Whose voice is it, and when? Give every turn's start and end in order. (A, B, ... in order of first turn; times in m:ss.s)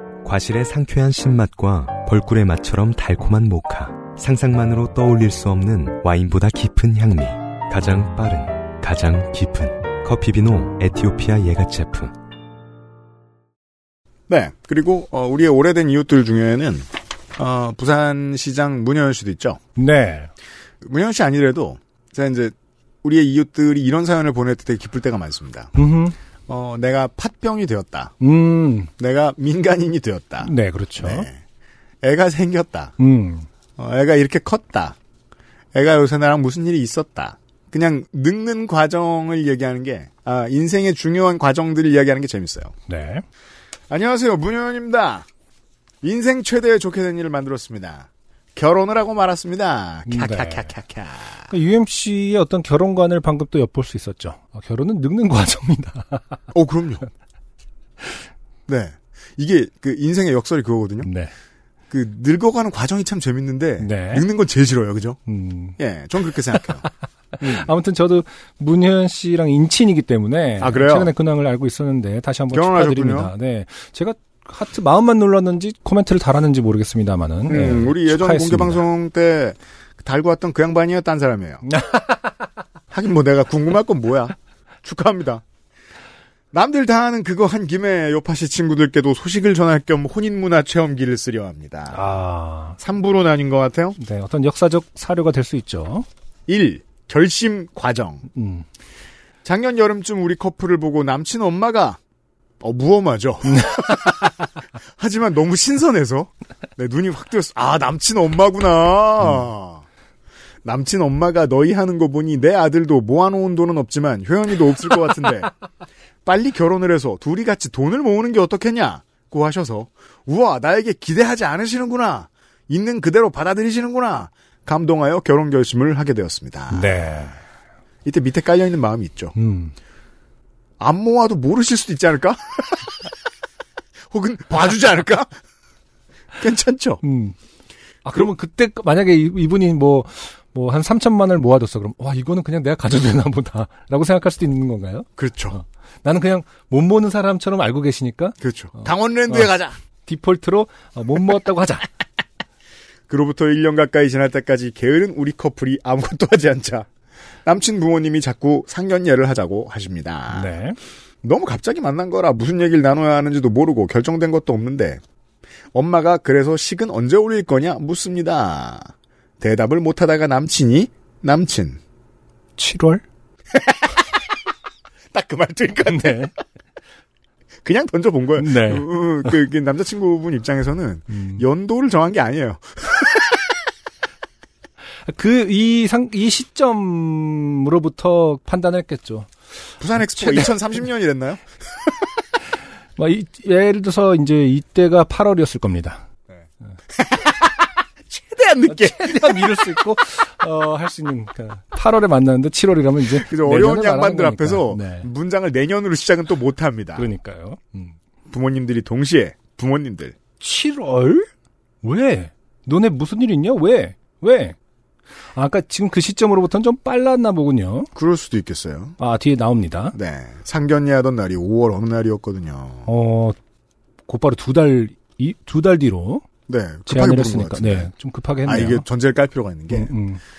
0:00.2-0:12.1 A
0:14.3-0:19.6 B
0:19.8-0:20.3 C
0:20.8-0:25.7 B
0:25.7-0:26.2 C
0:26.5-0:28.1 B
0:28.2-0:28.9 C
0:29.0-0:31.4 B
0:30.4-0:31.3 C
0:32.0-0:32.9 B
0:33.0-0:33.5 C
0:33.8-0:35.0 B
0:35.7-0:42.7 B
0:42.9-0:43.2 C
0:43.9-0:45.2 B
0:46.0-0:51.4 B
0:50.1-0:50.7 C
0:51.5-0:56.4 C
0:56.5-0:57.0 B
0:58.7-1:01.1 B
1:01.0-1:01.3 C
1:01.9-1:05.2 B
1:03.8-1:04.2 C
1:05.3-1:05.8 C
1:05.8-1:06.8 B
1:06.5-1:18.8 C
1:10.6-1:11.1 B
1:12.5-1:13.3 B
1:17.5-1:21.6 B
1:21.6-1:22.3 C
1:22.9-1:25.4 B
1:26.5-1:32.0 B
1:31.9-1:32.8 C
1:32.8-1:34.0 B
1:34.0-1:36.0 C
1:36.5-1:38.2 B
1:38.3-1:38.6 C
1:39.4-1:42.0 B
1:42.6-1:44.5 B
1:43.5-1:44.1 C
1:45.0-1:49.8 B
1:50.6-1:55.5 B
1:56.2-2:06.9 B
2:06.7-2:07.4 C
2:08.0-2:09.3 B
2:09.3-2:09.7 C
2:10.8-2:12.9 B
2:14.1-2:15.3 B
2:16.4-2:17.0 B
2:17.0-2:17.3 C
2:18.0-2:29.5 C
2:25.2-2:25.6 B
2:28.4-2:29.8 B
2:30.0-2:31.9 C
2:33.1-2:36.9 B
2:37.4-2:40.5 B
2:40.3-2:40.8 C
2:41.2-2:45.0 B
2:45.7-2:48.9 B
2:49.4-2:51.8 B
2:52.6-2:53.0 C
2:55.1-2:56.3 B
2:55.9-2:56.3 C
2:57.6-3:03.3 B
2:58.4-2:59.3 C
3:01.1-3:01.4 C
3:05.0-3:09.3 C
3:09.8-3:11.4 B
3:10.0-3:10.5 C
3:13.0-3:16.0 C
3:16.3-3:19.6 B
3:18.7-3:25.1 C
3:23.1-3:27.0 B
3:27.0-3:28.0 C
3:28.3-3:30.2 B
3:30.4-3:31.3 C
3:31.8-3:34.6 C
3:35.3-3:37.9 C
3:37.9-3:39.0 B
3:39.0-3:40.0 C
3:39.9-3:42.9 B
3:42.8-3:43.4 C
3:44.1-3:46.2 C
3:46.5-3:47.9 B
3:46.9-3:48.8 C
3:48.4-3:49.9 B
3:49.7-3:50.2 C